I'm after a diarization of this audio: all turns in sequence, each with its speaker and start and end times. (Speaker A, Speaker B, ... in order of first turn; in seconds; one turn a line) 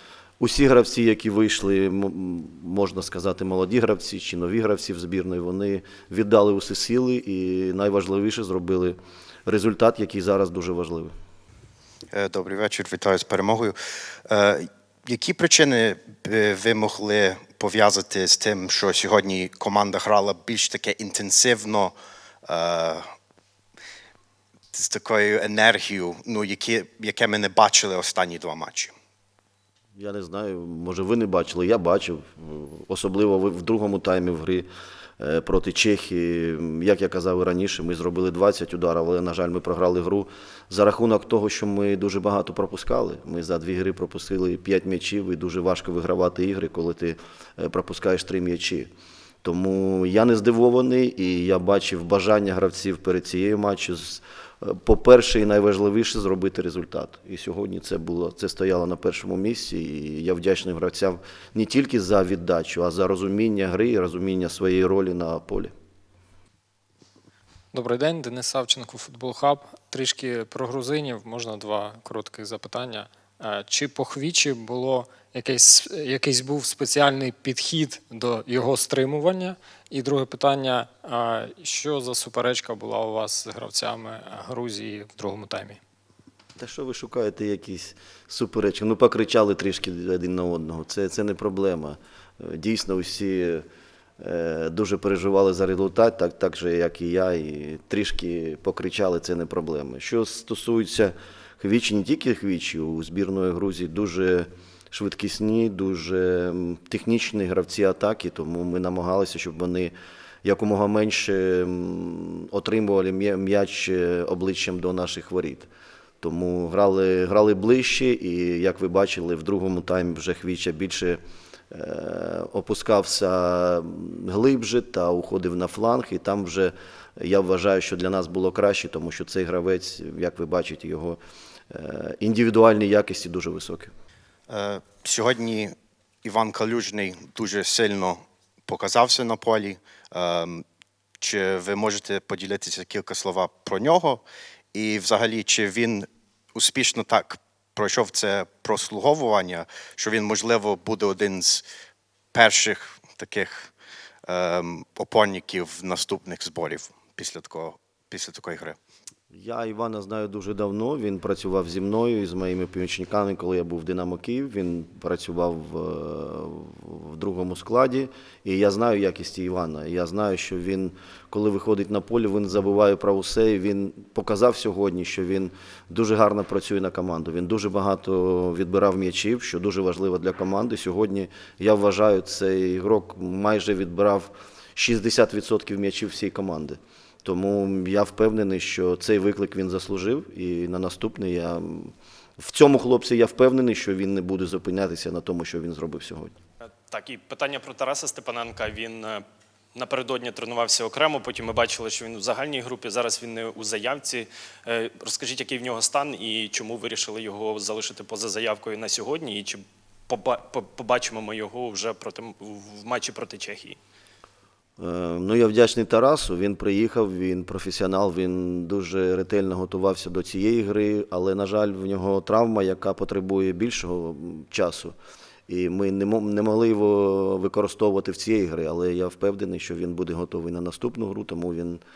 Speaker A: 0.4-11.1
Speaker B: 12.1-13.8
Speaker B: 14.3-21.9
Speaker B: 22.5-23.0
Speaker B: 24.7-28.9
Speaker A: 30.0-34.7
Speaker A: 35.2-48.9
Speaker A: 49.4-65.7
Speaker C: 67.7-85.8
Speaker A: 86.6-93.7
Speaker A: 94.2-109.9
Speaker A: 110.4-115.7
Speaker A: 116.2-121.2
Speaker A: 121.7-131.2
Speaker A: 131.7-133.9
Speaker B: 134.5-140.7
Speaker B: 141.2-144.2
Speaker B: 144.7-151.7
Speaker B: 152.3-153.7
Speaker B: 154.3-158.8
Speaker A: 159.3-196.3
Speaker D: 196.9-199.2
Speaker D: 199.8-213.8
Speaker A: 214.8-224.9
Speaker A: 225.5-231.8